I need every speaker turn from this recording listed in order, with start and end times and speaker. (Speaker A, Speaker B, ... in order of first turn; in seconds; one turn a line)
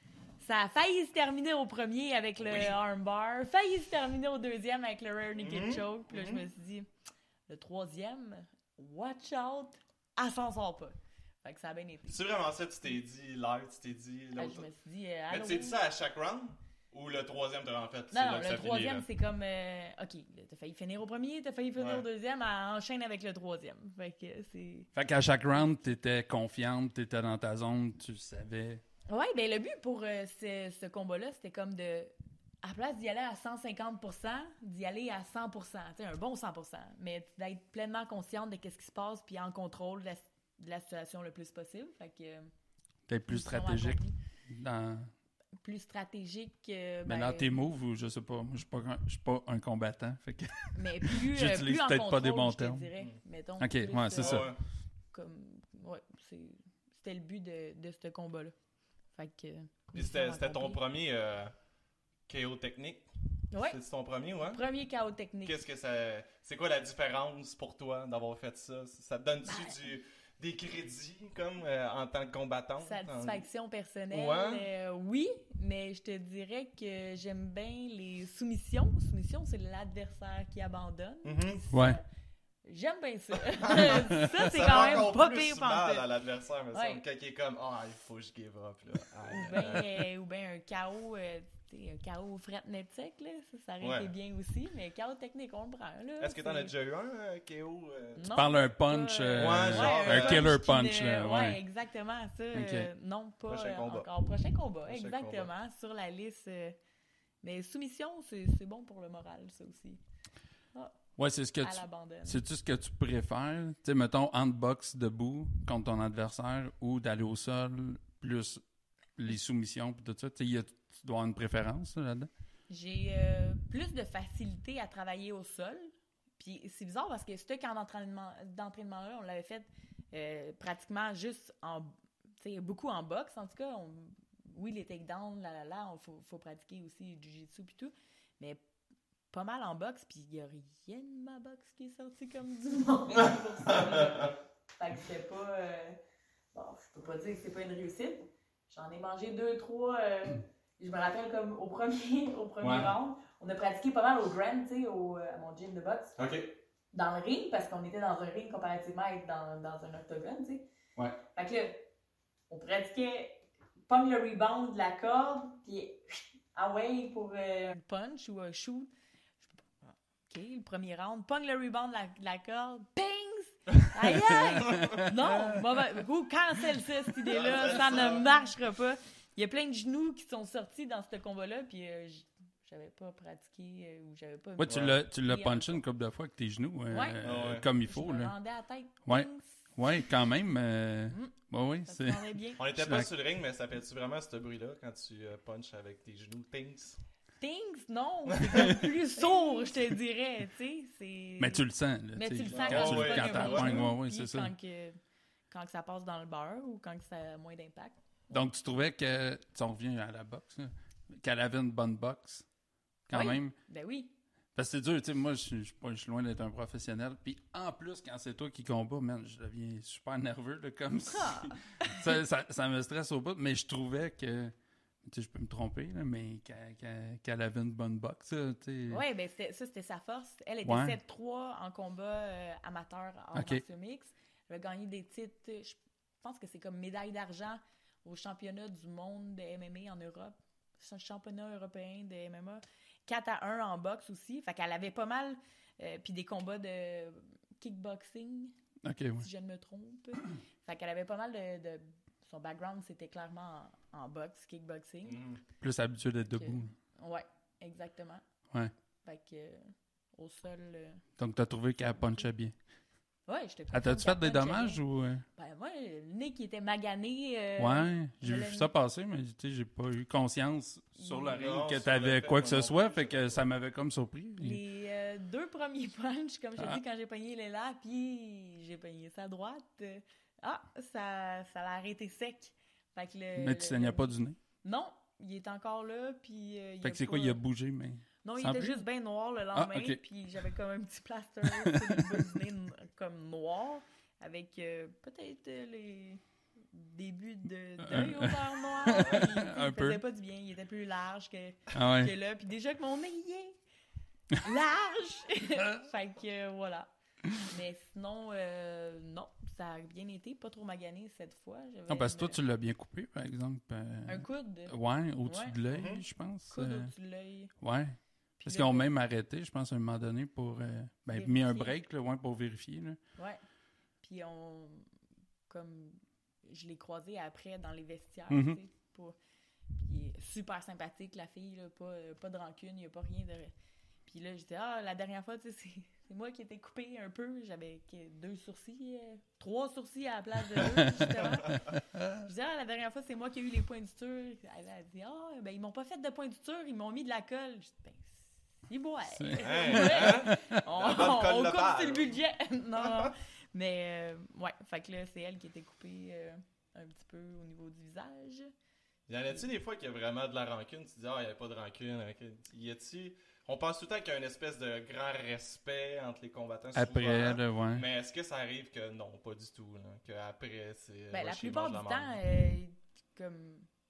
Speaker A: 0.4-6.9
Speaker B: 2.4-2.8
Speaker B: 5.4-6.4
Speaker A: 7.5-12.2
Speaker B: 12.1-14.7
Speaker A: 14.3-15.8
Speaker B: 15.3-19.1
Speaker A: 18.1-25.9
Speaker B: 21.8-22.1
Speaker C: 24.9-28.8
Speaker A: 29.1-32.1
Speaker A: 32.6-42.5
Speaker C: 43.1-45.1
Speaker A: 43.3-44.2
Speaker A: 45.6-47.5
Speaker C: 47.0-52.9
Speaker A: 50.7-54.5
Speaker C: 53.6-54.5
Speaker B: 54.1-54.6
Speaker A: 55.1-58.5
Speaker A: 59.1-60.8
Speaker B: 60.0-61.5
Speaker B: 62.3-64.6
Speaker A: 63.5-63.8
Speaker A: 64.5-65.6
Speaker B: 65.5-73.5
Speaker A: 69.5-69.8
Speaker A: 72.8-82.0
Speaker B: 74.1-74.7
Speaker B: 81.2-81.6
Speaker C: 81.7-82.0
Speaker A: 82.7-86.1
Speaker B: 83.5-90.0
Speaker C: 83.8-84.3
Speaker A: 86.7-87.0
Speaker A: 89.3-96.7
Speaker B: 93.8-94.1
Speaker B: 96.2-98.4
Speaker A: 98.2-106.8
Speaker C: 98.3-101.6
Speaker B: 99.4-100.5
Speaker C: 102.5-102.9
Speaker B: 103.5-104.1
Speaker B: 104.9-105.5
Speaker A: 107.4-110.0
Speaker C: 111.2-118.6
Speaker A: 111.6-112.4
Speaker C: 119.2-122.3
Speaker A: 122.7-138.6
Speaker A: 139.3-146.0
Speaker B: 143.7-144.2
Speaker A: 146.5-156.2
Speaker C: 152.6-152.9
Speaker B: 156.2-156.4
Speaker A: 156.9-160.7
Speaker A: 161.3-161.8
Speaker A: 162.5-168.9
Speaker A: 169.4-185.8
Speaker C: 174.2-175.6
Speaker B: 174.7-175.0
Speaker B: 177.3-178.5
Speaker C: 184.6-188.3
Speaker B: 184.7-185.0
Speaker A: 186.9-189.8
Speaker B: 187.2-187.7
Speaker C: 189.1-193.1
Speaker A: 191.1-192.6
Speaker B: 192.6-197.0
Speaker A: 197.4-201.6
Speaker B: 198.3-198.8
Speaker C: 201.4-204.5
Speaker A: 202.2-205.0
Speaker B: 202.5-203.9
Speaker A: 205.5-207.9
Speaker C: 208.3-212.5
Speaker C: 213.1-213.6
Speaker A: 213.1-214.1
Speaker C: 214.6-229.0
Speaker A: 221.1-222.1
Speaker A: 228.9-248.5
Speaker C: 230.6-231.0
Speaker C: 233.3-233.6
Speaker C: 248.8-249.3
Speaker A: 249.2-255.2
Speaker B: 255.0-255.4
Speaker C: 255.6-256.7
Speaker A: 256.3-258.2
Speaker A: 259.0-261.0
Speaker C: 261.2-262.5
Speaker A: 263.3-264.8
Speaker C: 263.7-265.2
Speaker A: 265.3-268.7
Speaker C: 267.6-274.6
Speaker A: 270.9-271.4
Speaker B: 271.3-273.4
Speaker A: 274.4-287.4
Speaker C: 283.3-284.4
Speaker C: 286.8-288.8
Speaker A: 288.2-303.6
Speaker C: 289.5-290.0
Speaker C: 291.5-292.4
Speaker C: 297.8-300.0
Speaker C: 301.7-302.1
Speaker A: 304.3-312.4
Speaker C: 311.9-316.9
Speaker A: 314.1-315.6
Speaker B: 315.7-316.0
Speaker A: 316.5-317.5
Speaker C: 317.6-323.0
Speaker A: 318.4-318.9
Speaker A: 321.1-321.8
Speaker A: 324.0-324.9
Speaker A: 325.5-329.1
Speaker C: 328.3-328.6
Speaker A: 329.8-333.5
Speaker A: 334.1-358.5
Speaker C: 340.6-341.2
Speaker C: 341.9-342.2
Speaker C: 349.1-350.6
Speaker B: 349.4-352.1
Speaker B: 352.8-353.1
Speaker B: 359.1-372.2
Speaker C: 366.8-367.9
Speaker A: 371.1-373.7